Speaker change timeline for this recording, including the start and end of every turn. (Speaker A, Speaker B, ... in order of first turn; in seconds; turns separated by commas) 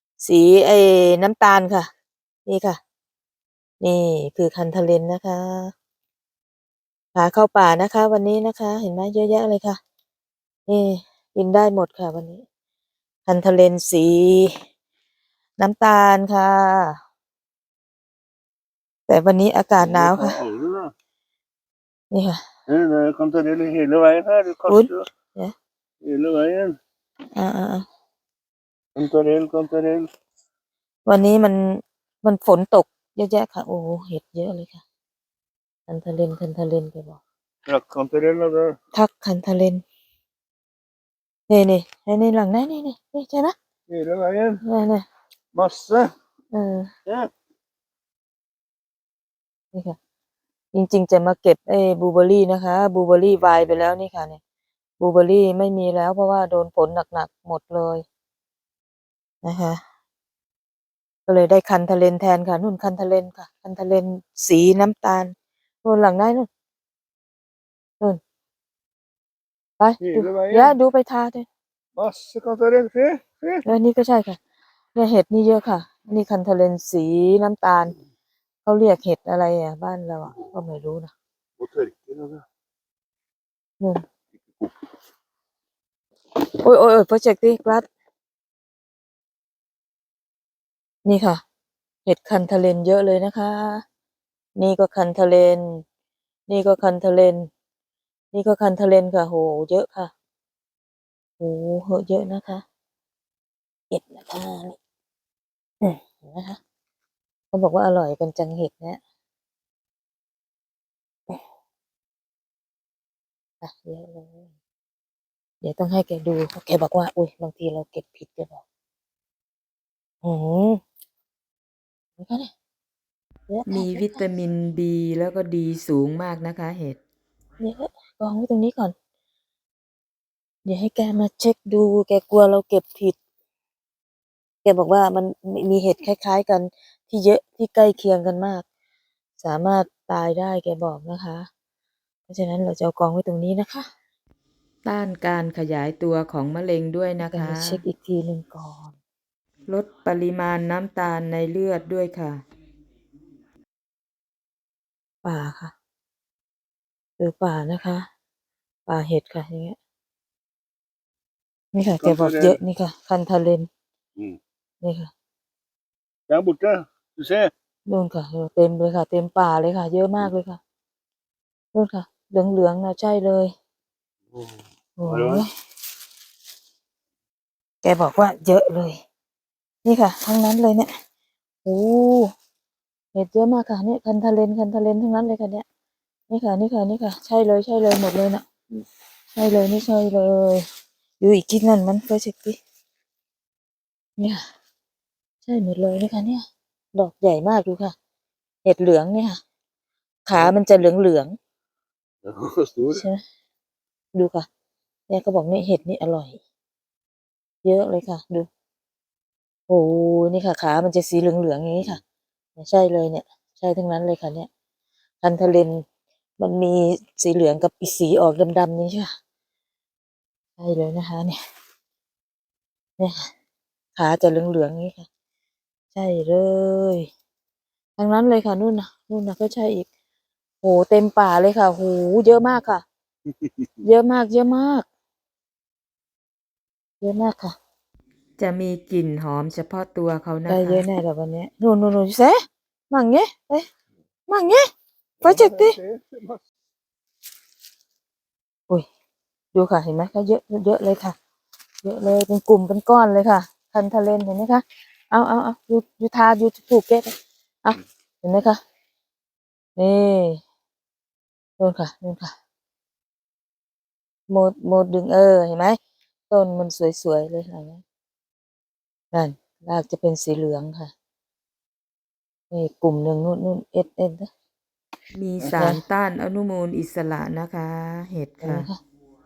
Speaker A: 0.2-1.9, Speaker A: 2.5-2.8, Speaker A: 3.8-5.7, Speaker A: 7.1-9.8, Speaker A: 10.7-12.4, Speaker A: 13.3-14.6, Speaker A: 15.6-17.0, Speaker A: 19.1-20.4, Speaker B: 19.8-20.9, Speaker A: 22.1-22.4, Speaker B: 22.7-25.0, Speaker A: 24.7-25.5, Speaker B: 26.0-26.8, Speaker A: 27.3-27.9, Speaker B: 29.0-30.1, Speaker A: 31.1-34.8, Speaker A: 35.9-37.2, Speaker B: 37.7-38.8, Speaker A: 38.9-39.8, Speaker A: 41.5-43.5, Speaker B: 43.9-44.6, Speaker A: 44.6-45.1, Speaker B: 45.5-46.1, Speaker A: 46.5-46.9, Speaker A: 50.7-54.4, Speaker A: 55.0-58.0, Speaker A: 59.4-59.8, Speaker A: 61.3-66.5, Speaker A: 69.8-71.5, Speaker B: 70.0-70.7, Speaker B: 72.0-73.6, Speaker A: 73.7-74.4, Speaker A: 75.0-77.9, Speaker A: 78.7-81.1, Speaker B: 81.6-82.5, Speaker A: 86.6-87.9, Speaker A: 91.0-91.4, Speaker A: 92.1-93.8, Speaker A: 94.6-95.8, Speaker A: 96.5-97.5, Speaker A: 98.3-100.1, Speaker A: 101.4-102.6, Speaker A: 103.9-104.8, Speaker A: 105.8-106.6, Speaker A: 107.5-109.0, Speaker A: 113.6-114.5, Speaker A: 115.6-118.6, Speaker A: 120.2-120.8, Speaker A: 122.2-122.5, Speaker A: 123.5-124.2, Speaker C: 123.7-127.0, Speaker A: 127.6-128.9, Speaker A: 130.7-133.2, Speaker A: 134.6-138.7, Speaker A: 139.4-141.5, Speaker A: 142.3-143.9, Speaker C: 144.8-147.8, Speaker A: 147.2-149.0, Speaker C: 149.7-152.4, Speaker A: 155.2-155.7, Speaker A: 157.2-158.1, Speaker A: 158.9-159.8, Speaker A: 161.7-163.7, Speaker B: 162.0-162.6, Speaker A: 164.8-165.1, Speaker B: 166.3-167.5, Speaker A: 167.9-170.6, Speaker A: 171.7-173.5, Speaker A: 175.0-175.5, Speaker B: 175.0-175.4, Speaker A: 177.8-179.0, Speaker A: 179.8-180.9, Speaker A: 181.7-182.3, Speaker A: 183.1-185.6, Speaker A: 186.3-188.5, Speaker A: 189.3-190.7, Speaker A: 191.2-192.6, Speaker A: 194.2-194.4, Speaker A: 195.4-196.4, Speaker A: 196.9-197.9, Speaker A: 198.6-199.4, Speaker A: 200.3-201.3, Speaker B: 202.2-203.1, Speaker A: 202.9-203.2, Speaker A: 204.2-204.5, Speaker A: 205.1-206.4, Speaker A: 207.6-208.5, Speaker A: 209.7-212.0, Speaker A: 212.6-214.5, Speaker A: 215.2-215.8, Speaker A: 216.4-219.1, Speaker A: 220.6-221.4, Speaker A: 223.0-223.3, Speaker A: 224.0-225.1, Speaker A: 225.9-227.1, Speaker A: 228.0-229.9, Speaker A: 230.6-232.8, Speaker A: 233.8-234.9, Speaker A: 237.0-237.6, Speaker C: 238.4-240.8, Speaker A: 240.5-243.7, Speaker A: 244.3-244.7, Speaker B: 245.2-246.4, Speaker A: 245.2-245.8, Speaker A: 249.5-251.2, Speaker A: 251.8-258.6, Speaker A: 259.8-260.4, Speaker A: 261.6-262.3, Speaker A: 264.3-265.8, Speaker A: 266.3-267.8, Speaker A: 269.1-270.9, Speaker A: 272.5-274.3, Speaker C: 275.1-278.7, Speaker A: 278.4-278.8